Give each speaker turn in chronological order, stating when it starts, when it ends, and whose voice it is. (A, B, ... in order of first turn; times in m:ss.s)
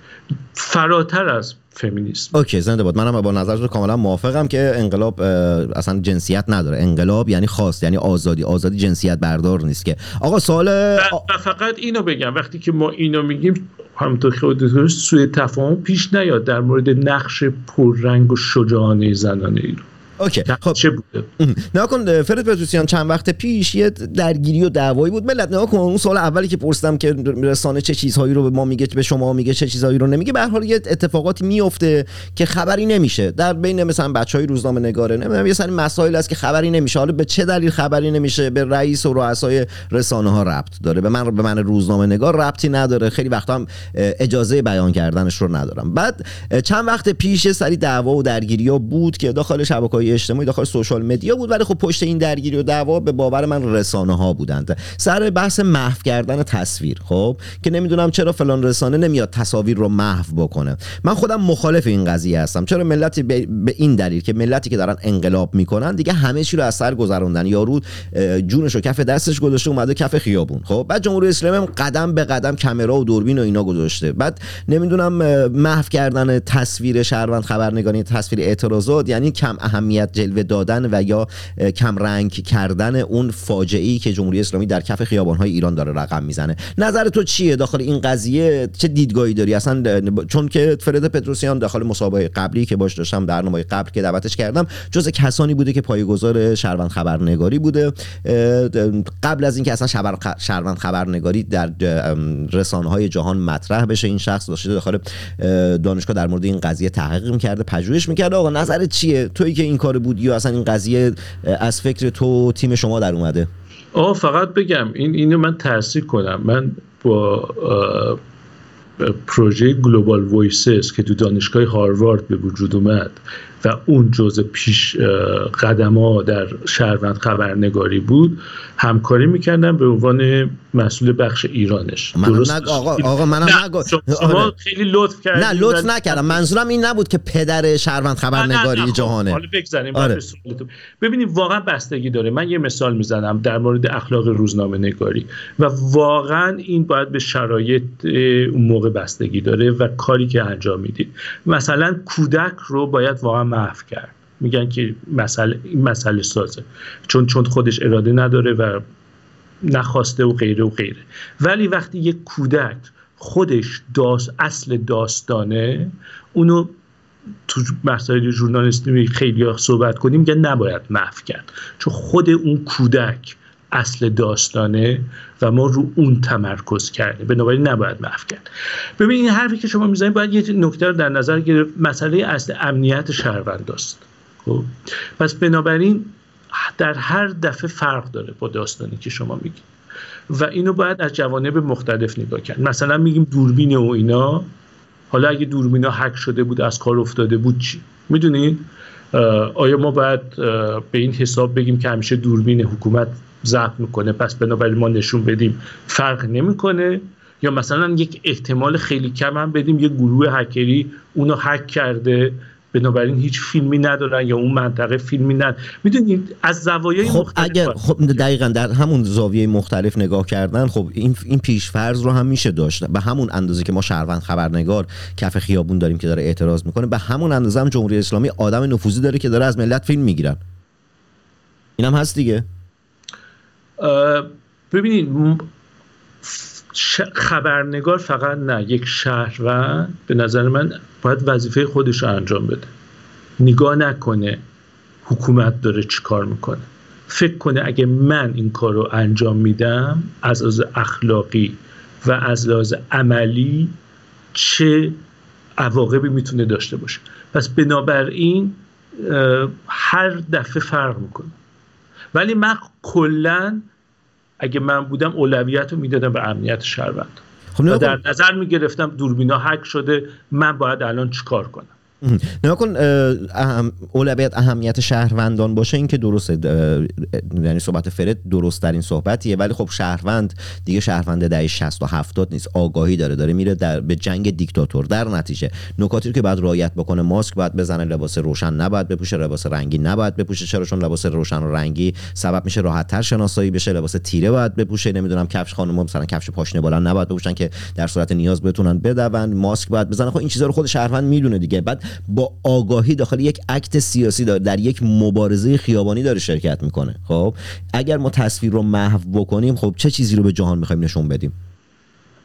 0:00.6-0:02.4 A
0:02.3-0:11.2 B
0:11.0-0:19.9 A
0:20.2-0:20.8 B
0:20.5-0:21.3 A
0:21.4-1:53.5 B
1:53.9-1:58.2 A
1:59.0-2:16.4 A
2:12.2-2:14.5 B
2:15.4-2:19.4 B
2:18.4-2:38.8 A
2:39.6-2:46.7 A
2:47.5-2:58.4 A
2:59.0-3:09.6 A
3:10.3-3:14.5 A
3:15.1-3:38.2 A
3:37.0-3:50.4 B
3:51.8-3:52.4 B
3:53.8-3:55.4 A
3:56.2-4:02.7 A
4:03.4-4:04.4 A
4:05.0-4:13.7 A
4:14.3-4:15.0 A
4:15.6-4:21.4 A
4:22.1-4:23.6 A
4:24.4-4:31.7 A
4:27.6-4:28.0 B
4:32.0-5:11.4 B